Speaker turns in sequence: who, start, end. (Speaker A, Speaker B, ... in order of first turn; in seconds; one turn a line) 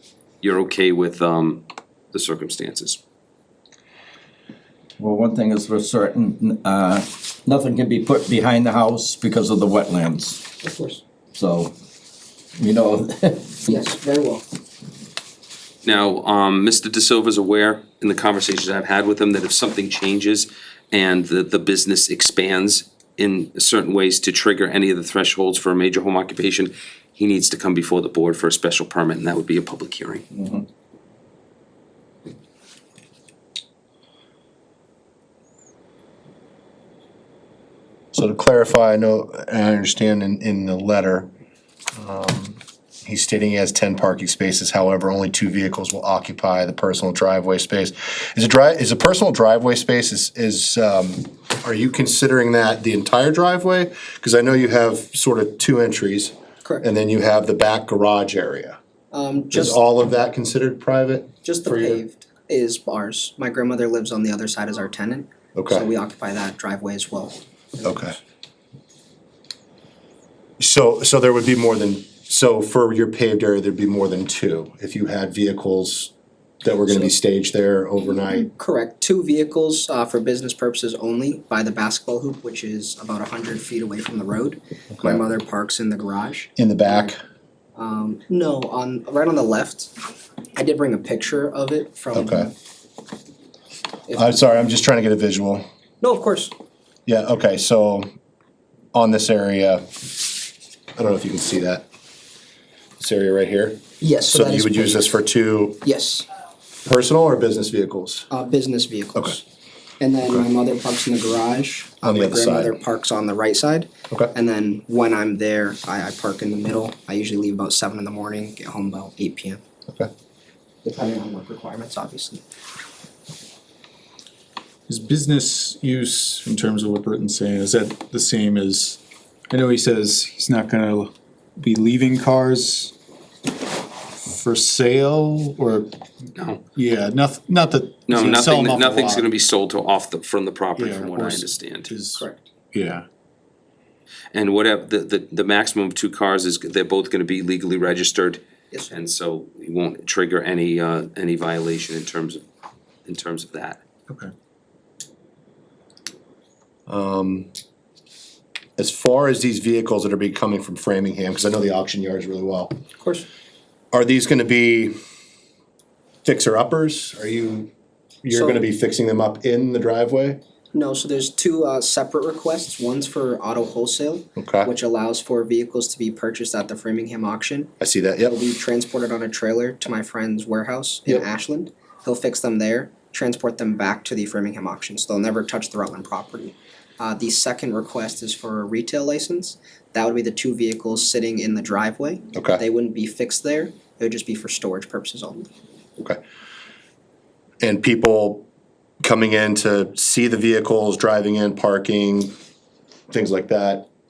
Speaker A: 0.4-3.0
Speaker B: 5.0-10.6
Speaker C: 10.6-11.0
Speaker B: 11.3-11.7
Speaker B: 12.6-13.7
Speaker C: 13.7-14.4
Speaker A: 15.8-30.3
Speaker B: 30.3-30.6
Speaker D: 38.1-41.3
Speaker D: 42.0-58.8
Speaker C: 59.1-59.8
Speaker D: 59.5-62.0
Speaker C: 61.4-68.2
Speaker D: 65.5-65.9
Speaker D: 67.8-68.2
Speaker D: 70.6-76.1
Speaker D: 76.6-78.5
Speaker C: 78.3-87.1
Speaker D: 86.6-87.2
Speaker C: 87.7-89.9
Speaker C: 90.5-92.5
Speaker D: 92.1-92.5
Speaker C: 94.1-94.6
Speaker D: 94.1-95.6
Speaker C: 96.0-96.5
Speaker D: 97.0-98.1
Speaker D: 98.9-100.0
Speaker D: 101.0-101.8
Speaker D: 103.0-105.8
Speaker C: 104.0-105.2
Speaker C: 105.8-106.3
Speaker D: 106.8-108.3
Speaker C: 108.3-109.4
Speaker C: 110.0-119.6
Speaker D: 112.0-112.8
Speaker C: 120.8-122.4
Speaker E: 124.9-132.9
Speaker E: 134.2-135.9
Speaker A: 136.3-136.6
Speaker E: 136.7-139.2
Speaker A: 138.1-141.9
Speaker E: 140.8-143.0
Speaker C: 142.2-142.4
Speaker A: 144.3-152.4
Speaker A: 153.1-153.8
Speaker D: 156.9-157.5
Speaker D: 158.8-162.8
Speaker C: 163.0-163.3
Speaker D: 163.9-164.9
Speaker D: 166.2-167.7
Speaker D: 168.2-170.4
Speaker C: 168.3-168.6
Speaker C: 170.7-195.5
Speaker D: 174.3-174.7
Speaker D: 177.8-178.4
Speaker D: 192.3-192.6
Speaker D: 197.6-198.4
Speaker D: 199.0-202.3
Speaker D: 203.1-203.9